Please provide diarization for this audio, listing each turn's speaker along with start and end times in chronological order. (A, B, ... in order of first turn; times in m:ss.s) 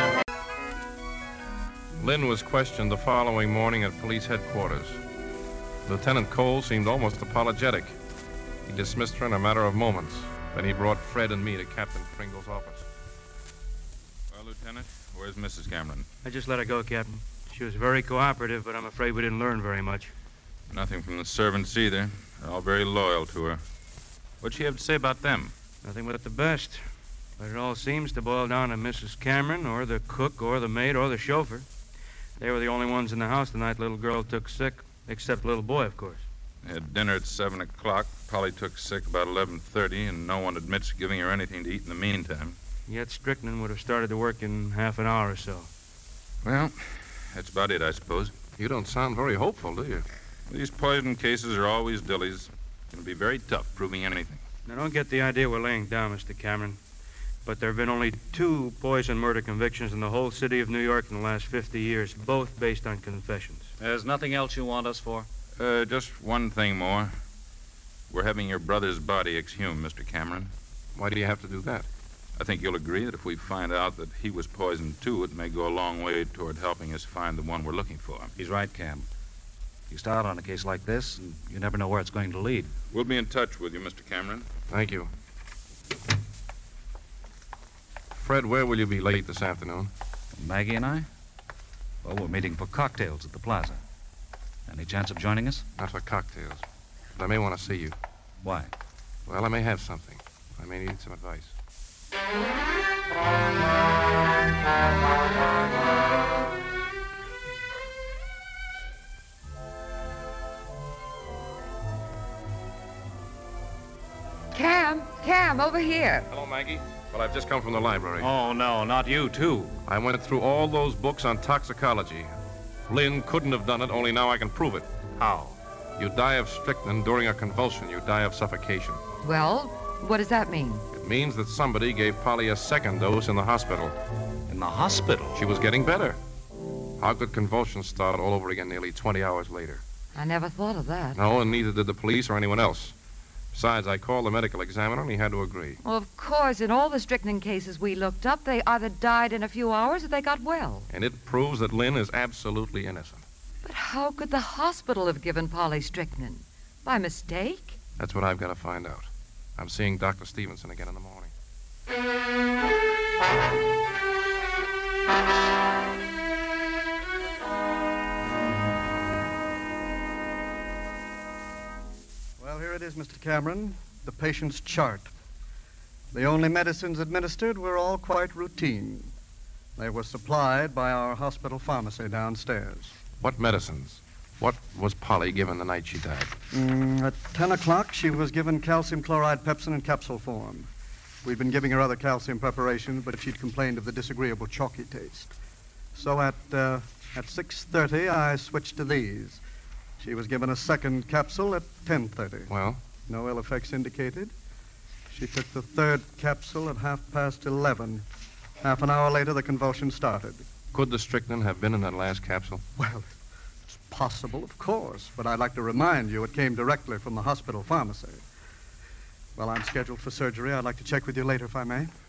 0:02.0-0:05.0 A
0:05.9-0:08.0 A
0:08.7-0:12.9 A
0:14.3-0:16.1 B
0:16.2-0:20.1 C
0:20.7-0:23.6 B
0:24.4-0:25.5 B
0:25.8-0:26.9 C
0:27.4-0:31.7 C
0:32.4-0:36.2 C
0:36.6-0:42.6 B
0:42.9-0:45.7 C
0:46.4-0:46.8 B
0:47.3-0:48.3 B
0:48.6-0:50.0 A
0:50.5-0:54.4 B
0:54.6-0:56.8 C
0:57.4-1:03.7 C
1:03.8-1:05.3 D
1:05.6-1:07.1 B
1:08.1-1:10.5 B
1:11.0-1:11.9 A
1:12.4-1:18.3 B
1:18.4-1:19.1 D
1:19.9-1:22.7 D
1:22.9-1:24.5 B
1:24.7-1:25.1 A
1:28.1-1:29.9 A
1:30.4-1:31.1 D
1:32.0-1:33.8 D
1:34.7-1:35.6 D
1:35.8-1:36.6 A
1:37.2-1:38.0 A
1:38.4-1:38.7 D
1:39.3-1:41.5 A
1:54.5-1:56.3 E
1:56.3-1:58.3 A
1:58.2-1:59.8 D
1:59.9-2:02.3 A
2:02.9-2:04.9 A
2:05.2-2:05.6 D
2:06.0-2:09.0 A
2:09.2-2:10.9 E
2:10.9-2:14.0 A
2:14.5-2:15.4 D
2:15.4-2:16.2 A
2:17.0-2:19.8 A
2:20.2-2:21.2 E
2:21.2-2:23.0 A
2:23.5-2:25.8 A
2:25.8-2:30.9 E
2:30.9-2:33.2 A
2:33.6-2:37.8 E
2:38.0-2:41.3 A
2:52.4-2:55.1 F
2:56.1-2:59.1 F
2:59.8-3:02.9 F
3:03.2-3:06.3 A
3:06.5-3:10.7 F
3:11.2-3:15.3 F
3:15.9-3:19.4 F
3:20.0-3:22.5 F
3:22.5-3:22.8 A
3:23.1-3:24.3 F
3:25.1-3:28.0 F
3:28.6-3:30.4 F
3:30.7-3:32.6 A
3:32.8-3:33.1 F
3:33.8-3:38.2 F
3:39.4-3:41.9 F